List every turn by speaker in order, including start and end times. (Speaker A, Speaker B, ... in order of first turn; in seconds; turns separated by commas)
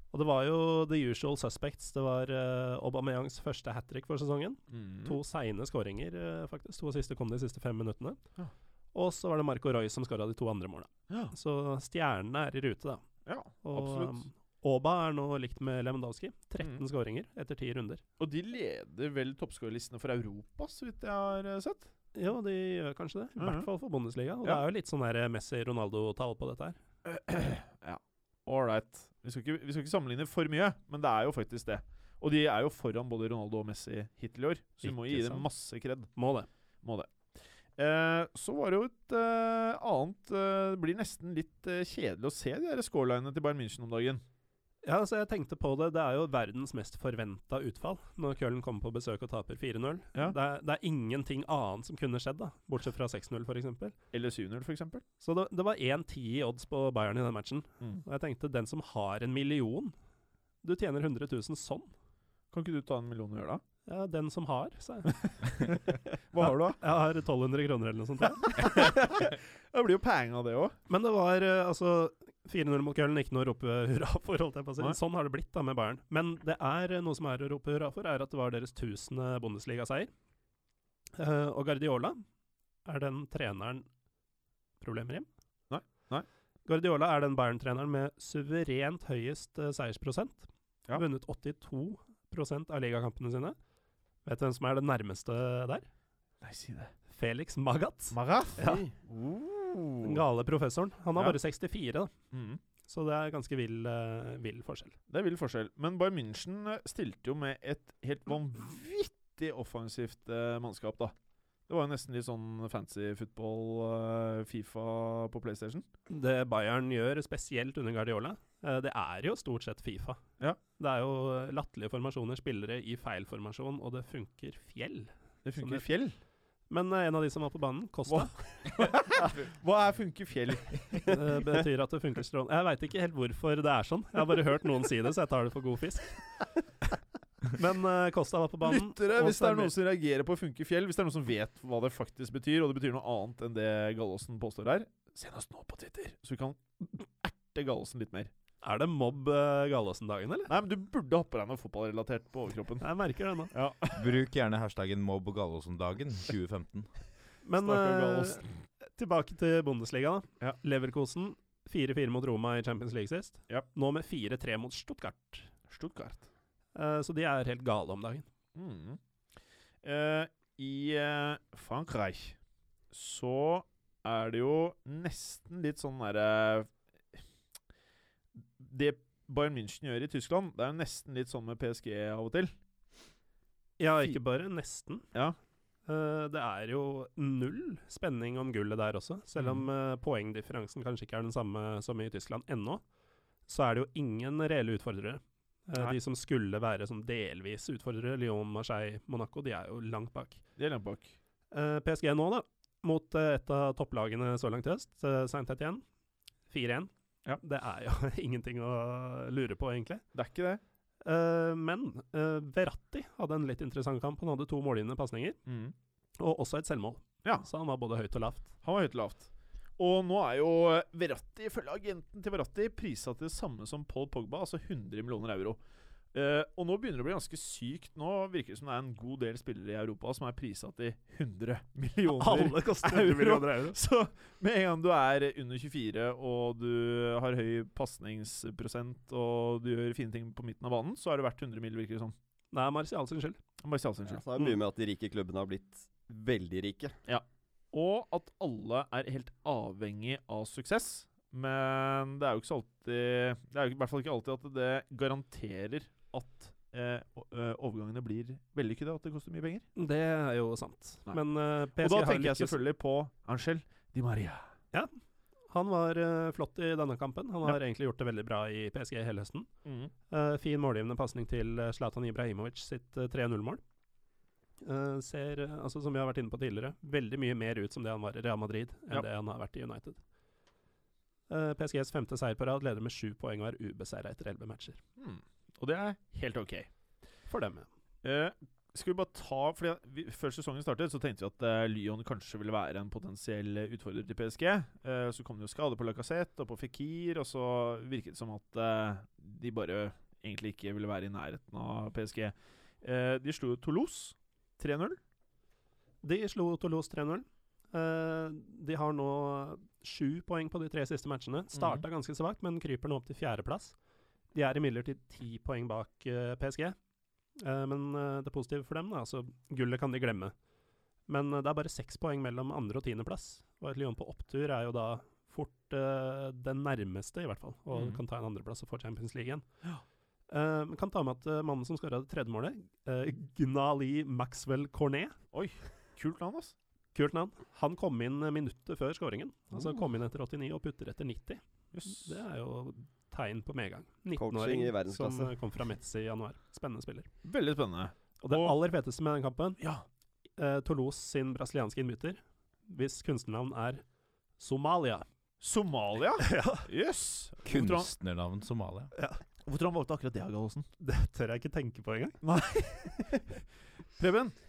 Speaker A: 0.1-8.2, Speaker B: 4.7-5.2, Speaker A: 8.9-13.0, Speaker B: 13.2-14.2, Speaker A: 13.6-18.0, Speaker B: 18.2-21.9, Speaker A: 22.1-26.8, Speaker B: 23.4-23.7, Speaker B: 27.1-36.1, Speaker A: 34.8-35.5, Speaker A: 36.1-36.5, Speaker B: 36.8-37.1, Speaker B: 37.8-44.2, Speaker A: 44.8-53.9, Speaker B: 54.1-55.0, Speaker A: 55.2-59.9, Speaker A: 60.6-61.9, Speaker B: 62.5-63.6, Speaker A: 63.9-65.1, Speaker B: 65.2-66.8, Speaker A: 66.4-68.9, Speaker B: 68.5-70.8, Speaker A: 70.9-80.1, Speaker A: 81.2-82.2, Speaker A: 82.8-83.8, Speaker A: 84.8-85.3, Speaker B: 85.7-86.2, Speaker A: 86.7-93.5, Speaker A: 94.2-95.9, Speaker B: 96.4-96.9, Speaker A: 97.1-98.9, Speaker B: 98.1-100.2, Speaker A: 100.0-102.1, Speaker B: 102.3-102.6, Speaker A: 102.9-105.0, Speaker B: 105.1-111.1, Speaker B: 111.7-115.8, Speaker A: 116.1-125.8, Speaker B: 125.4-126.2, Speaker A: 126.7-128.3, Speaker B: 128.1-131.5, Speaker A: 131.1-136.2, Speaker A: 137.5-139.7, Speaker B: 138.6-148.3, Speaker A: 148.6-150.5, Speaker B: 150.5-152.8, Speaker A: 152.8-153.5, Speaker B: 153.5-154.2, Speaker C: 153.9-156.9, Speaker A: 157.4-165.5, Speaker B: 157.6-158.5, Speaker B: 165.7-166.2, Speaker A: 166.7-168.2, Speaker B: 168.5-169.0, Speaker B: 169.8-172.3, Speaker B: 172.9-177.2, Speaker B: 178.4-182.5, Speaker A: 183.8-185.1, Speaker A: 185.8-192.8, Speaker B: 189.4-189.6, Speaker A: 193.5-200.4, Speaker B: 200.6-201.2, Speaker A: 201.5-205.8, Speaker A: 206.5-210.0, Speaker B: 210.1-210.6, Speaker A: 211.0-215.4, Speaker B: 215.4-215.7, Speaker A: 216.2-218.5, Speaker B: 218.6-225.6, Speaker B: 226.1-242.1, Speaker A: 232.1-233.8, Speaker A: 242.5-243.4, Speaker B: 243.6-244.2, Speaker D: 244.0-246.9, Speaker B: 247.1-259.6, Speaker A: 259.8-262.6, Speaker B: 261.8-264.5, Speaker A: 265.5-269.5, Speaker B: 269.6-269.9, Speaker A: 270.1-273.6, Speaker A: 274.6-280.0, Speaker A: 281.3-284.8, Speaker B: 285.0-286.7, Speaker A: 287.3-287.7, Speaker B: 288.0-305.0, Speaker A: 306.0-313.7, Speaker B: 311.5-311.8, Speaker A: 314.3-316.8, Speaker A: 317.4-320.3, Speaker A: 321.1-329.4, Speaker B: 327.7-328.0, Speaker A: 330.3-335.1, Speaker B: 335.3-336.5, Speaker A: 336.9-347.1, Speaker B: 341.7-342.1, Speaker D: 344.1-345.3, Speaker B: 347.2-348.5, Speaker A: 348.2-349.6, Speaker B: 349.6-349.8, Speaker A: 350.4-353.8, Speaker A: 354.4-355.0, Speaker B: 355.4-357.9, Speaker A: 356.2-356.6, Speaker C: 357.4-358.9, Speaker A: 358.9-359.2, Speaker B: 359.4-360.7, Speaker A: 360.8-362.2, Speaker B: 362.2-363.2, Speaker B: 364.0-364.3